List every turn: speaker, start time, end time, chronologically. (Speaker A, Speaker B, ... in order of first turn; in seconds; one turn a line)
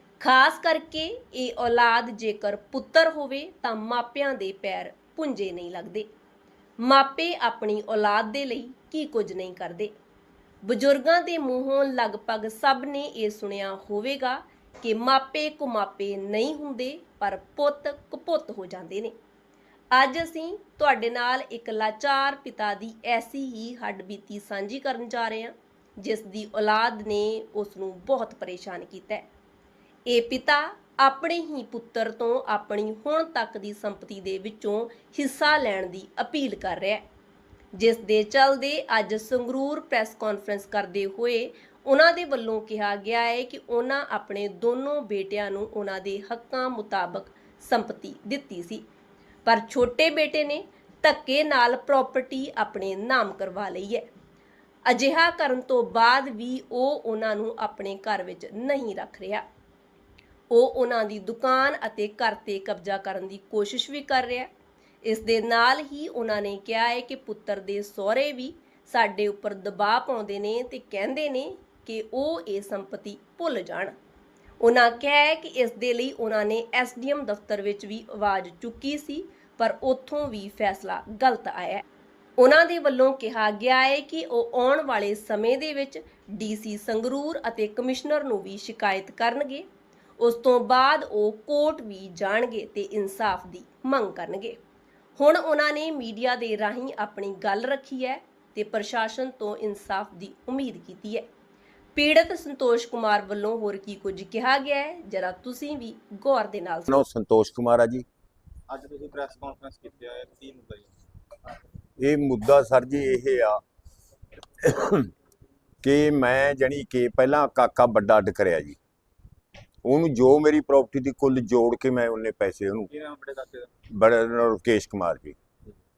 Speaker A: 0.2-6.1
Speaker A: 6.8-9.9
Speaker A: 10.6-19.1
Speaker A: 19.9-29.3
Speaker A: 30.1-37.0
Speaker A: 37.7-48.8
Speaker A: 49.5-54.1
Speaker A: 54.9-59.5
Speaker A: 60.5-64.5
Speaker A: 65.0-74.0
Speaker A: 74.6-81.8
Speaker A: 82.4-89.7
Speaker A: 90.2-94.6
Speaker A: 95.2-101.3
Speaker A: 102.0-107.0
Speaker B: 106.9-108.0
Speaker C: 108.7-110.9
Speaker B: 112.0-113.6
Speaker B: 114.6-115.1
Speaker B: 115.8-118.8
Speaker B: 119.8-122.9
Speaker C: 122.9-123.7
Speaker B: 123.9-125.4